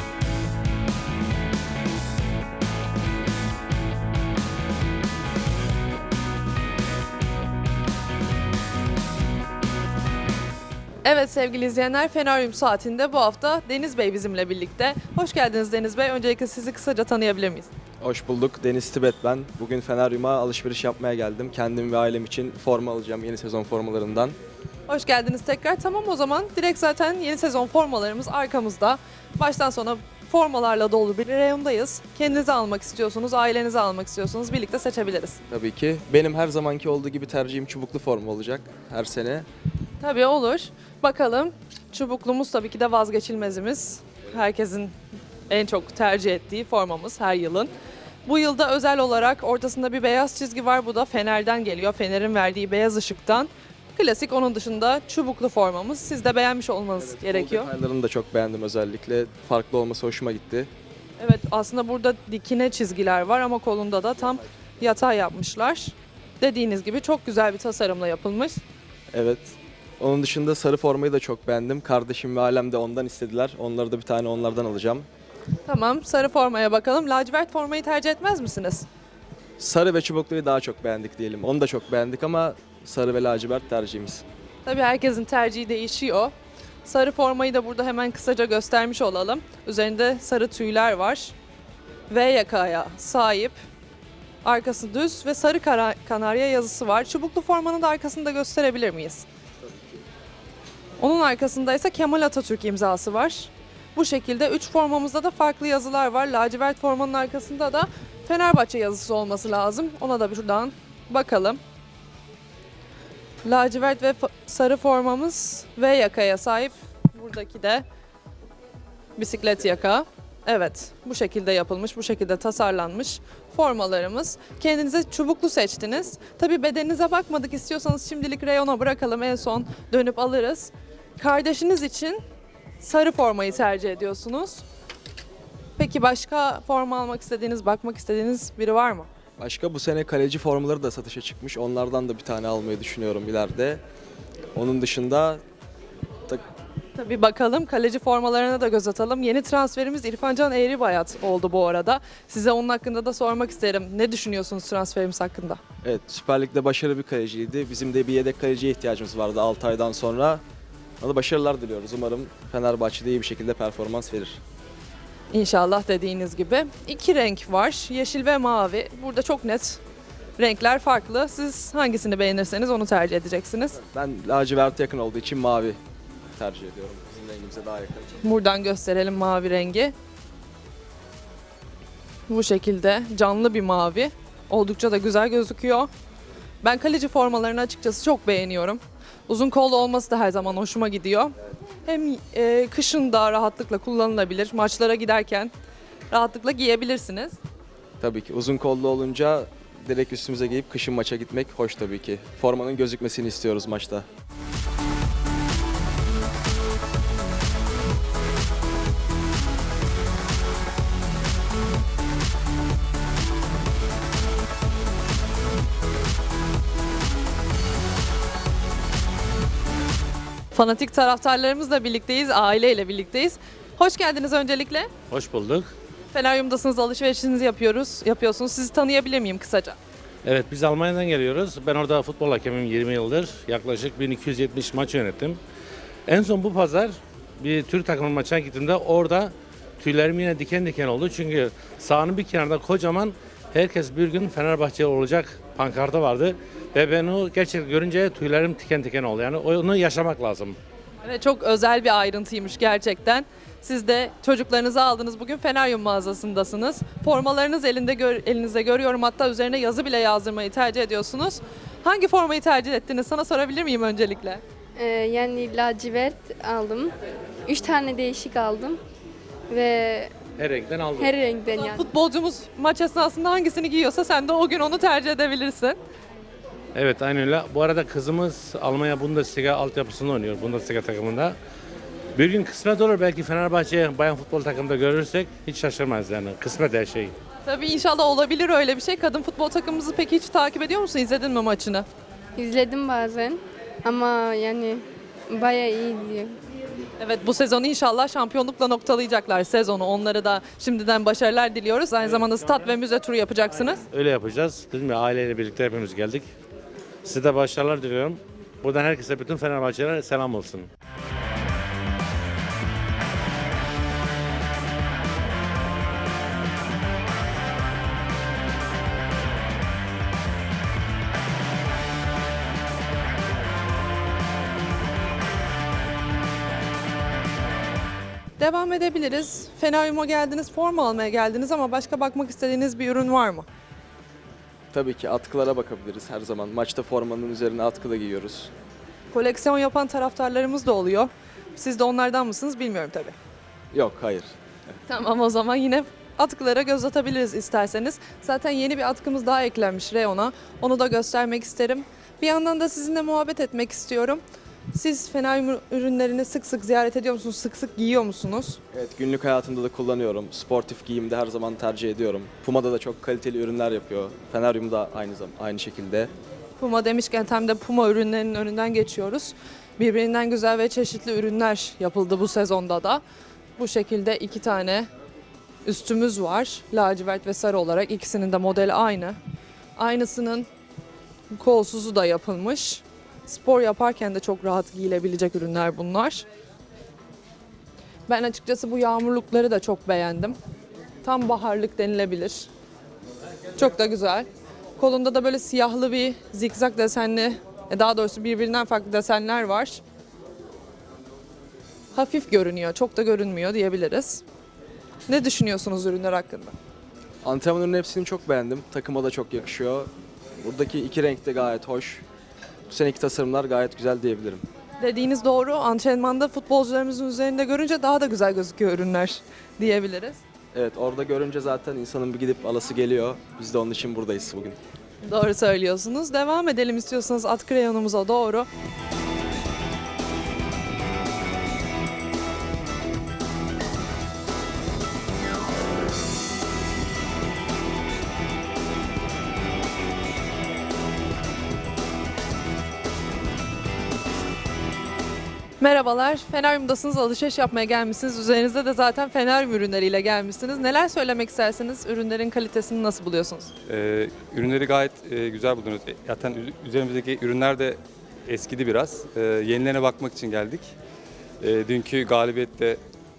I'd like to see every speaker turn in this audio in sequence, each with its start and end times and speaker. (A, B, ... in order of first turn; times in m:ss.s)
0:11.0-0:17.7 A
0:18.0-0:24.4 B
0:24.9-0:35.4 A
0:35.5-0:39.5 B
0:40.0-0:44.9 A
0:45.5-0:47.7 A
0:48.3-0:57.7 A
0:57.0-1:00.7 B
1:01.2-1:08.6 A
1:09.1-1:15.1 B
1:15.7-1:18.9 A
1:19.6-1:24.2 B
1:24.6-1:26.3 A
1:26.8-1:31.3 A
1:32.1-1:33.6 A
1:34.4-1:39.2 A
1:41.0-1:51.6 A
1:53.4-1:57.8 A
1:59.2-2:12.2 A
2:12.8-2:14.6 A
2:15.8-2:19.1 A
2:19.4-2:23.8 B
2:24.6-2:25.4 B
2:27.0-2:35.6 A
2:35.8-2:40.4 B
2:41.0-2:44.4 B
2:45.3-2:49.8 A
2:50.4-2:53.8 A
2:53.9-2:55.8 B
2:56.3-2:58.1 B
2:58.2-2:59.9 A
3:02.3-3:05.9 A
3:06.6-3:11.3 A
3:11.9-3:15.5 A
3:16.1-3:17.4 A
3:18.0-3:24.1 B
3:40.5-3:44.9 A
3:45.1-3:45.7 C
3:46.1-3:49.8 A
3:50.2-3:55.4 C
3:56.1-4:10.6 C
4:11.0-4:24.4 A
4:24.8-4:26.9 D
4:27.5-4:28.8 D
4:29.5-4:30.1 D
4:30.4-4:31.2 C
4:31.0-4:31.8 D
4:31.5-4:35.8 A
4:36.8-4:41.4 C
4:42.2-4:47.1 C
4:47.5-4:51.9 A
4:52.4-4:56.4 D
4:57.0-5:03.8 A
5:03.9-5:06.3 C
5:07.0-5:10.7 C
5:28.4-5:33.5 A
5:34.7-5:38.5 B
5:39.1-5:43.2 A
5:43.7-5:44.3 B
5:44.9-5:54.2 A
5:54.7-5:58.6 A
5:58.7-6:06.1 B
6:06.6-6:13.0 A
6:13.6-6:14.9 A
6:15.7-6:19.2 A
6:19.8-6:20.5 A
6:21.3-6:26.3 A
6:28.1-6:30.4 A
6:31.0-6:32.5 A
6:33.6-6:34.3 A
6:34.8-6:39.8 A
6:41.9-6:44.2 A
6:45.1-6:46.6 A
6:47.2-6:52.0 B
6:52.7-6:54.4 B
6:54.8-7:00.2 A
7:00.5-7:04.6 B
7:05.0-7:08.5 A
7:25.6-7:33.5 A
7:33.7-7:40.7 E
7:41.4-7:42.8 E